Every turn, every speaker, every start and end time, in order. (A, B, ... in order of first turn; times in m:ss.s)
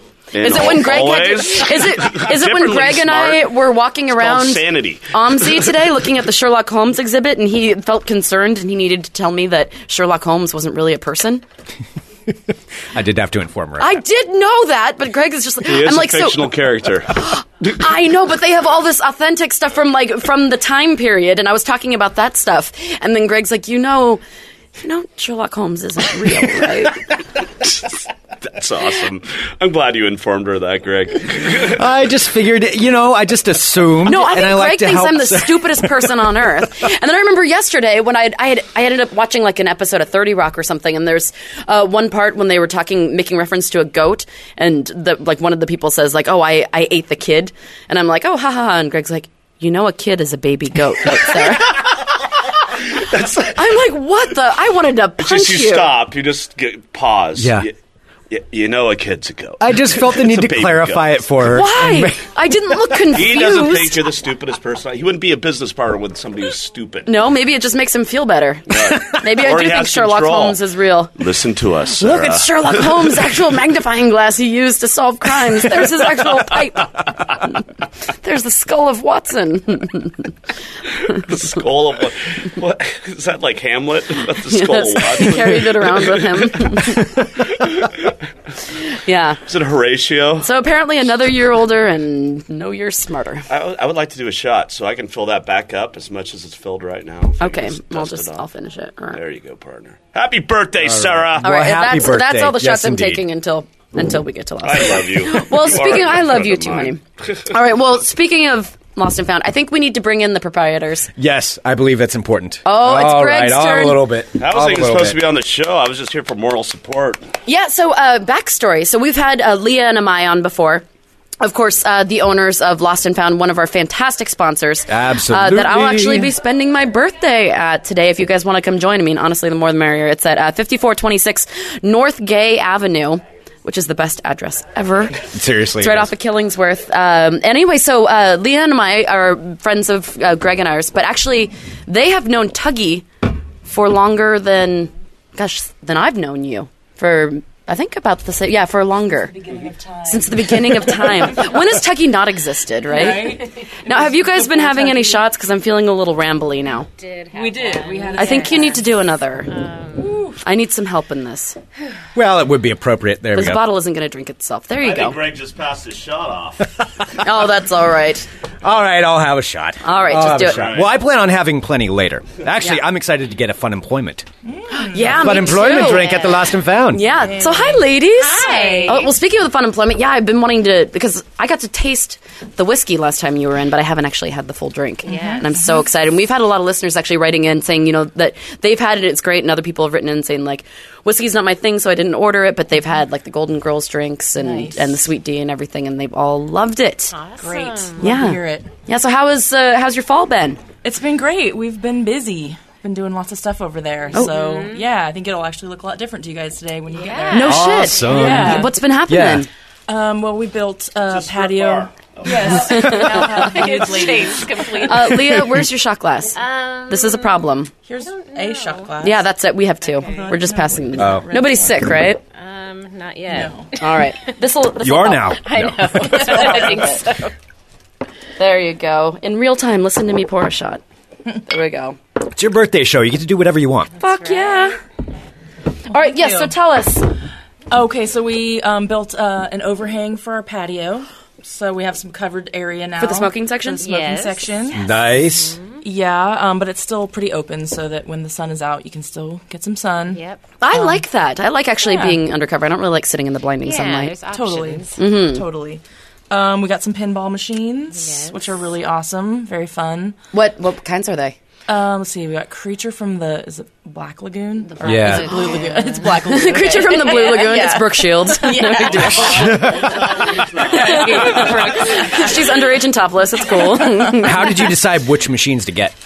0:00.3-0:03.6 A
0:00.4-0:11.4 B
0:04.1-0:05.7 A
0:12.9-0:14.0 C
0:13.8-0:16.5 B
0:15.6-0:17.2 A
0:17.1-0:24.2 B
0:24.8-0:27.0 B
0:28.4-0:31.8 A
0:31.7-0:36.0 C
0:34.0-0:51.9 B
0:52.9-0:53.6 A
0:53.4-0:56.0 B
0:55.2-0:57.7 A
0:57.4-0:57.7 C
0:58.3-1:01.2 A
0:59.6-1:02.2 C
1:01.5-1:04.1 B
1:03.0-1:07.1 A
1:07.0-1:11.1 B
1:08.7-1:10.6 A
1:11.1-1:13.1 A
1:12.0-1:17.3 B
1:18.2-1:20.3 B
1:21.1-1:28.1 A
1:24.5-1:27.1 B
1:28.9-1:29.4 B
1:29.5-1:30.5 A
1:30.4-1:33.5 B
1:33.5-1:38.4 A
1:37.4-1:39.2 B
1:39.1-1:41.5 A
1:40.8-1:43.2 C
1:41.4-1:51.1 B
1:44.6-1:47.4 A
1:51.2-1:55.2 C
1:52.6-1:54.1 B
1:54.4-1:57.2 A
1:57.4-2:00.8 B
2:01.4-2:23.0 B
2:04.9-2:06.3 C
2:15.3-2:16.1 C
2:23.6-2:29.3 B
2:29.2-2:31.6 D
2:30.1-2:36.9 B
2:32.9-2:35.2 D
2:33.0-2:33.6 E
2:36.9-2:38.8 E
2:37.3-2:38.8 D
2:38.2-2:39.5 B
2:39.5-2:40.3 E
2:40.0-2:40.4 D
2:40.4-2:41.6 B
2:42.1-2:43.6 C
2:43.3-2:45.2 B
2:44.8-2:46.8 A
2:47.2-2:48.2 B
2:48.6-2:54.3 C
2:49.8-2:50.6 B
2:50.3-2:50.9 A
2:54.4-2:55.3 D
2:54.9-2:56.3 B
2:55.0-2:57.1 C
2:55.4-2:56.5 E
2:56.9-3:17.2 B
2:57.1-2:59.0 D
2:58.1-2:59.1 E
3:05.0-3:05.5 E
3:05.1-3:05.8 D
3:14.4-3:15.0 D
3:17.1-3:18.2 E
3:17.4-3:18.7 D
3:18.0-3:20.6 B
3:20.8-3:28.8 D
3:24.1-3:24.9 E
3:26.9-3:28.4 E
3:27.3-3:29.5 B
3:27.4-3:29.5 C
3:29.9-3:35.1 D
3:31.1-3:32.6 A
3:32.4-3:35.5 E
3:32.7-3:33.1 B
3:34.8-3:37.7 B
3:36.3-3:39.0 E
3:37.9-3:39.2 D
3:39.0-3:42.2 B
3:39.8-3:40.5 E
3:40.0-3:41.8 D
3:41.0-3:41.3 C
3:42.3-3:44.3 E
3:43.3-3:43.7 D
3:43.8-3:45.4 B
3:44.8-3:46.1 C
3:45.3-3:47.3 E
3:46.1-3:47.0 B
3:46.1-3:46.9 D
3:48.4-3:50.8 B
3:51.4-3:52.0 B
3:52.3-3:53.9 C
3:54.0-3:54.8 E
3:54.0-3:54.8 B
3:55.9-3:57.1 B
3:55.9-3:56.5 D
3:57.7-4:04.9 D
4:03.0-4:03.8 B
4:03.8-4:05.8 E
4:04.7-4:05.6 C
4:05.8-4:11.0 D
4:10.0-4:10.4 E
4:10.6-4:14.1 B
4:11.8-4:12.2 D
4:13.6-4:15.0 E
4:14.3-4:20.2 D
4:15.0-4:15.4 B
4:17.9-4:18.4 E
4:20.3-4:21.4 B
4:21.7-4:32.5 D
4:24.6-4:27.7 E
4:24.8-4:25.3 C
4:26.2-4:29.5 B
4:28.9-4:31.4 A
4:29.3-4:30.0 C
4:30.7-4:34.6 B
4:30.7-4:32.4 E
4:33.6-4:34.1 D
4:34.1-4:35.9 C